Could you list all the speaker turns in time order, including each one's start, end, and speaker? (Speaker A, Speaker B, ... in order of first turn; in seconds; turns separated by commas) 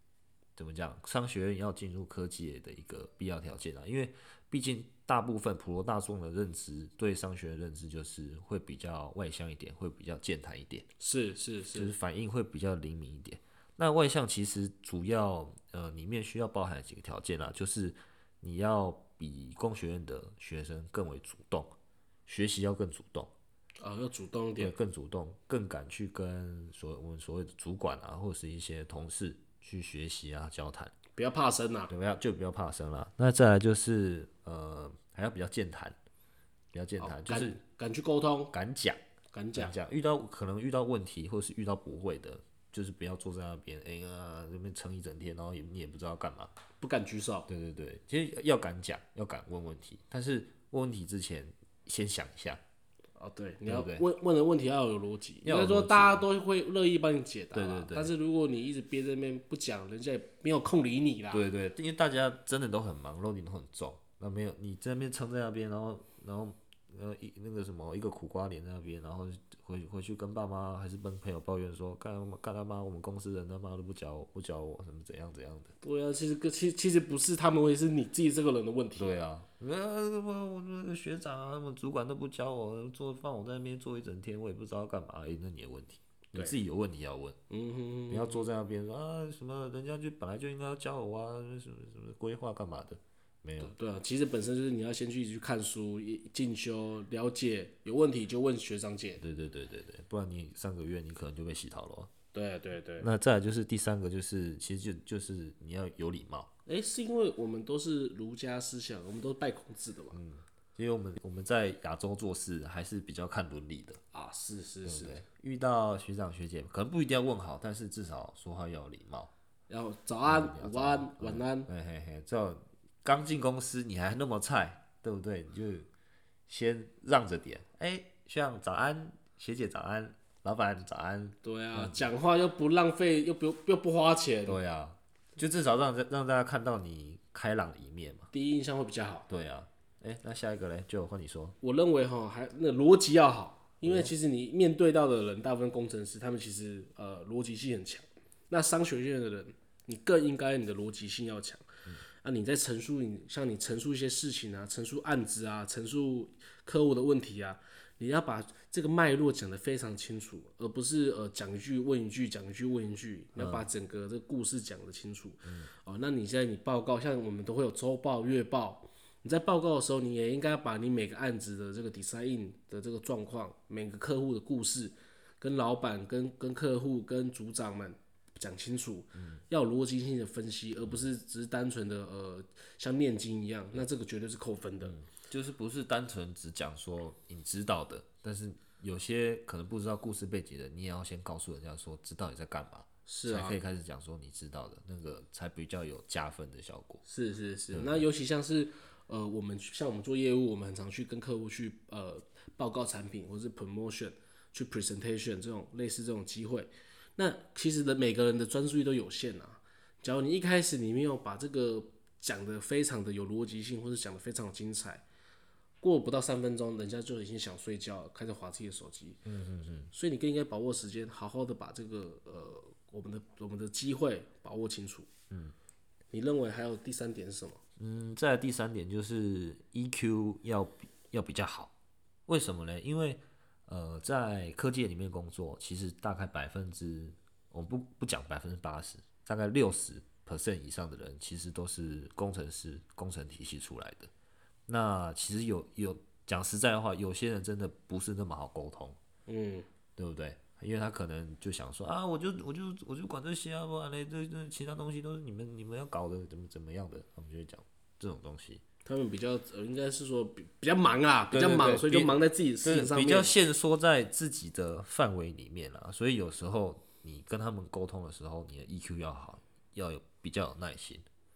Speaker A: 0.6-10.9, Speaker B: 11.0-11.9, Speaker A: 11.7-21.7, Speaker A: 22.3-23.3, Speaker B: 23.8-24.7, Speaker A: 24.6-30.9, Speaker B: 31.1-31.9, Speaker A: 31.9-36.0, Speaker A: 36.7-37.6, Speaker B: 37.0-38.5, Speaker A: 38.5-39.0, Speaker B: 39.3-39.7, Speaker A: 39.5-46.5, Speaker B: 46.8-47.5, Speaker A: 47.5-52.6, Speaker B: 53.2-61.4, Speaker A: 53.6-54.0, Speaker A: 55.4-56.2, Speaker A: 57.5-58.1, Speaker A: 61.3-75.7, Speaker B: 75.8-79.1, Speaker A: 79.0-87.4, Speaker B: 87.5-88.4, Speaker A: 88.1-93.7, Speaker B: 93.6-99.2, Speaker A: 99.2-102.1, Speaker B: 102.3-103.1, Speaker A: 103.0-106.5, Speaker B: 106.7-110.2, Speaker A: 110.1-114.0, Speaker B: 114.1-115.2, Speaker A: 114.8-119.3, Speaker B: 119.7-121.7, Speaker A: 120.2-125.9, Speaker A: 126.5-132.1, Speaker B: 131.4-134.6, Speaker A: 134.4-138.3, Speaker B: 138.3-139.3, Speaker A: 139.3-141.6, Speaker B: 141.6-151.7, Speaker A: 143.8-144.1, Speaker B: 152.2-184.9, Speaker A: 163.4-163.7, Speaker A: 165.4-165.7, Speaker A: 179.2-179.4, Speaker A: 184.8-197.0, Speaker B: 193.1-193.6, Speaker B: 197.0-215.0, Speaker A: 197.7-198.1, Speaker B: 215.8-219.2, Speaker A: 219.2-219.9, Speaker B: 219.9-225.1, Speaker B: 226.1-227.6, Speaker A: 227.8-231.7, Speaker A: 232.3-244.1, Speaker A: 244.7-249.0, Speaker B: 249.3-249.7, Speaker A: 250.0-258.6, Speaker B: 258.8-263.3, Speaker A: 261.3-271.0